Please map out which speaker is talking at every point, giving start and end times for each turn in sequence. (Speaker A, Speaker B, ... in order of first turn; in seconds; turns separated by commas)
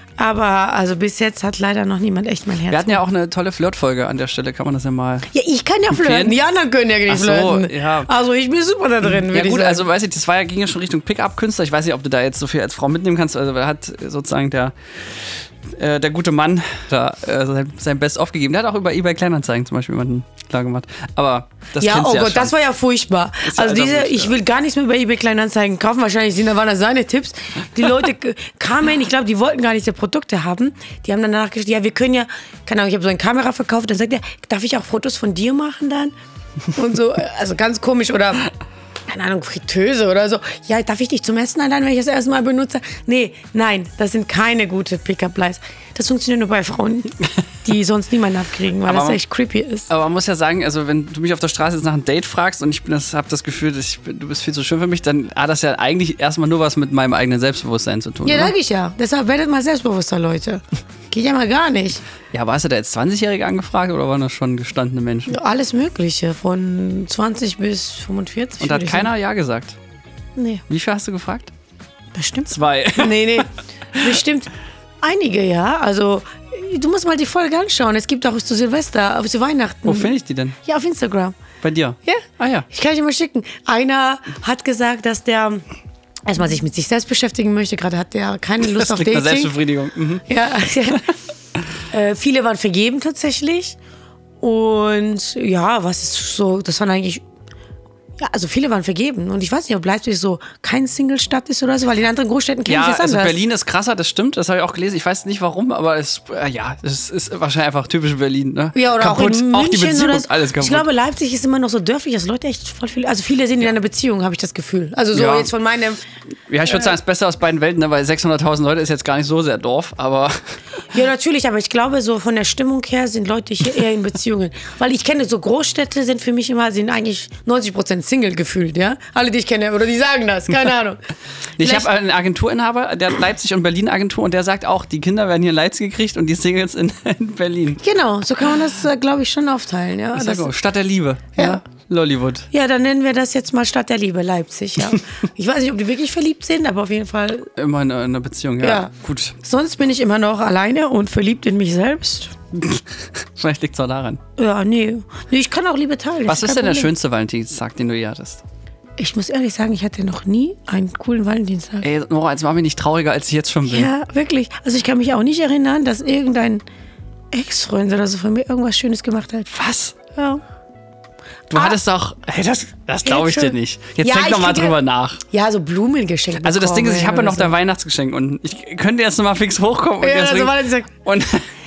Speaker A: 0.2-3.0, Speaker B: 2.7-5.3, Speaker A: 5.3-9.9, Speaker B: 5.9-6.4, Speaker B: 7.1-8.1, Speaker B: 9.1-22.5, Speaker A: 21.8-36.1, Speaker B: 23.4-24.4, Speaker A: 36.7-38.5, Speaker A: 39.1-49.9, Speaker B: 48.9-49.2, Speaker B: 49.9-58.5, Speaker A: 58.2-62.0, Speaker B: 62.3-65.4, Speaker A: 65.3-69.1, Speaker B: 68.6-69.8, Speaker A: 70.4-70.6, Speaker B: 70.7-71.5, Speaker A: 72.1-81.4, Speaker B: 72.5-73.5, Speaker B: 79.8-80.5, Speaker B: 81.6-82.7, Speaker A: 82.0-85.7, Speaker A: 86.3-89.6, Speaker B: 88.6-90.2, Speaker A: 90.3-91.1, Speaker A: 91.9-93.8, Speaker A: 94.4-97.2, Speaker A: 98.2-103.4, Speaker B: 102.7-110.9, Speaker A: 108.8-116.0, Speaker B: 115.1-115.5, Speaker B: 116.5-120.5, Speaker A: 116.6-116.9, Speaker A: 120.9-131.0, Speaker B: 131.6-137.8, Speaker A: 131.6-131.9, Speaker A: 137.8-140.5, Speaker B: 140.2-142.5, Speaker A: 141.4-141.6, Speaker A: 142.5-147.5, Speaker B: 147.6-149.4, Speaker A: 148.6-152.4, Speaker B: 152.5-154.2, Speaker A: 154.4-156.9, Speaker B: 156.3-158.4, Speaker A: 159.0-161.9, Speaker B: 161.8-163.9, Speaker A: 163.7-166.6, Speaker A: 167.3-169.5, Speaker B: 169.5-170.0, Speaker A: 170.1-170.4, Speaker B: 171.5-175.2, Speaker A: 173.1-174.8, Speaker A: 175.3-177.5, Speaker B: 176.4-181.5, Speaker A: 180.0-180.9